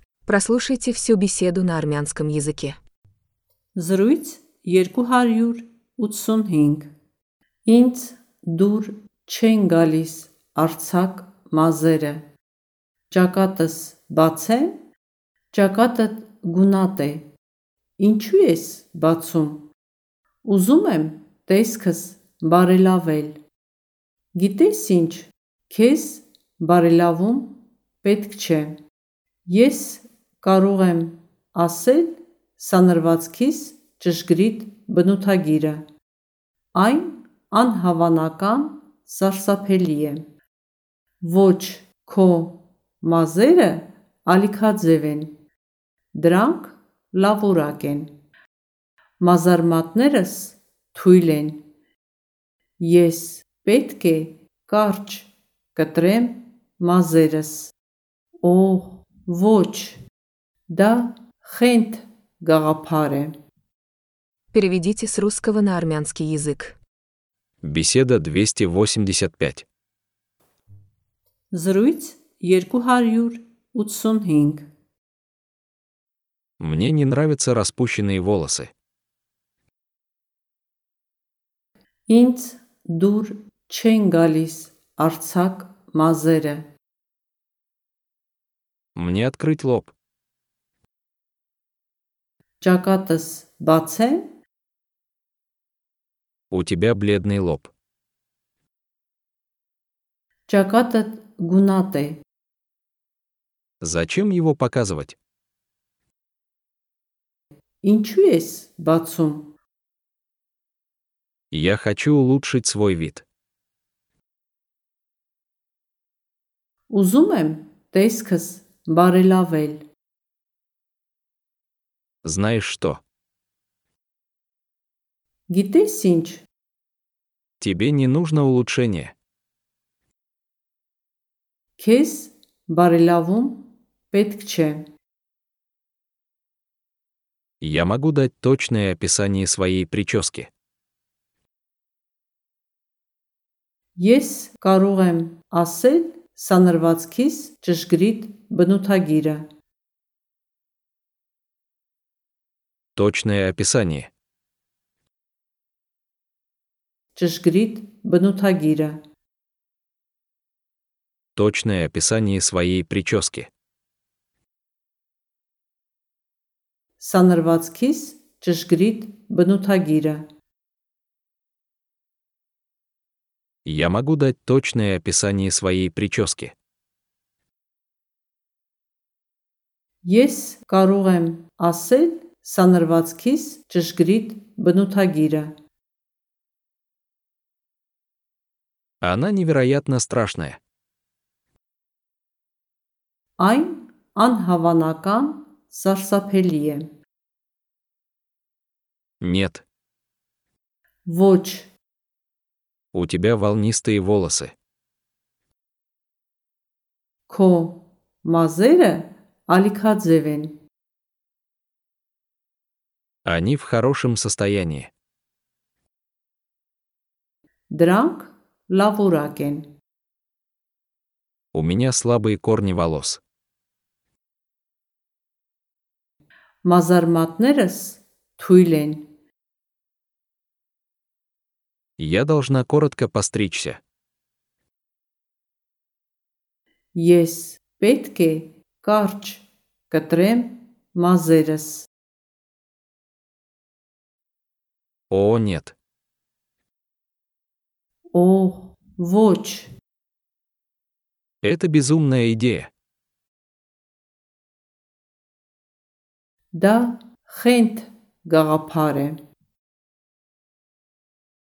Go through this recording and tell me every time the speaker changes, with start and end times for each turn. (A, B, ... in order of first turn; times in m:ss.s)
0:00.2-0:02.8 A
0:03.8-0:06.9 B
0:07.6-0:12.2 B
0:13.1-0:14.8 B
0:15.5-0:17.3 B
0:18.0-0:19.7 B
0:20.4-0:23.4 B
0:24.3-0:28.8 B
0:29.4-0:35.8 B
0:36.7-0:40.3 B
0:41.2-0:45.4 B
0:46.1-0:48.2 B
0:49.2-0:51.7 B
0:52.8-0:57.7 B
0:58.4-1:00.0 B
1:00.7-1:03.3 B
1:04.5-1:06.8 A
1:07.6-1:09.6 C
1:11.5-1:14.6 B
1:16.6-1:18.7 C
1:22.1-1:26.7 B
1:28.9-1:29.9 C
1:32.6-1:34.3 B
1:36.5-1:37.7 C
1:40.5-1:42.2 B
1:43.8-1:45.2 C
1:47.8-1:49.5 B
1:51.5-1:53.2 C
1:56.9-1:59.9 B
2:02.2-2:03.0 C
2:05.5-2:06.4 B
2:07.6-2:09.1 C
2:11.8-2:14.9 B
2:17.6-2:20.5 C
2:24.0-2:29.5 B
2:33.0-2:34.1 C
2:37.1-2:39.0 B
2:41.4-2:43.5 C
2:47.0-2:50.3 B
2:53.6-2:56.5 C
3:00.0-3:05.6 B
3:09.0-3:10.6 C
3:13.4-3:16.9 B
3:19.2-3:19.6 C
3:21.0-3:21.7 B
3:22.9-3:24.5 C
3:27.3-3:30.6 B
3:33.2-3:34.9 C
3:37.7-3:39.7 B
3:41.5-3:43.2 C
3:46.6-3:49.1 B
3:52.0-3:53.8 C
3:56.9-4:01.9 B
4:05.1-4:05.7 C
4:08.1-4:09.7 B
4:11.4-4:12.7 C
4:16.5-4:19.2 B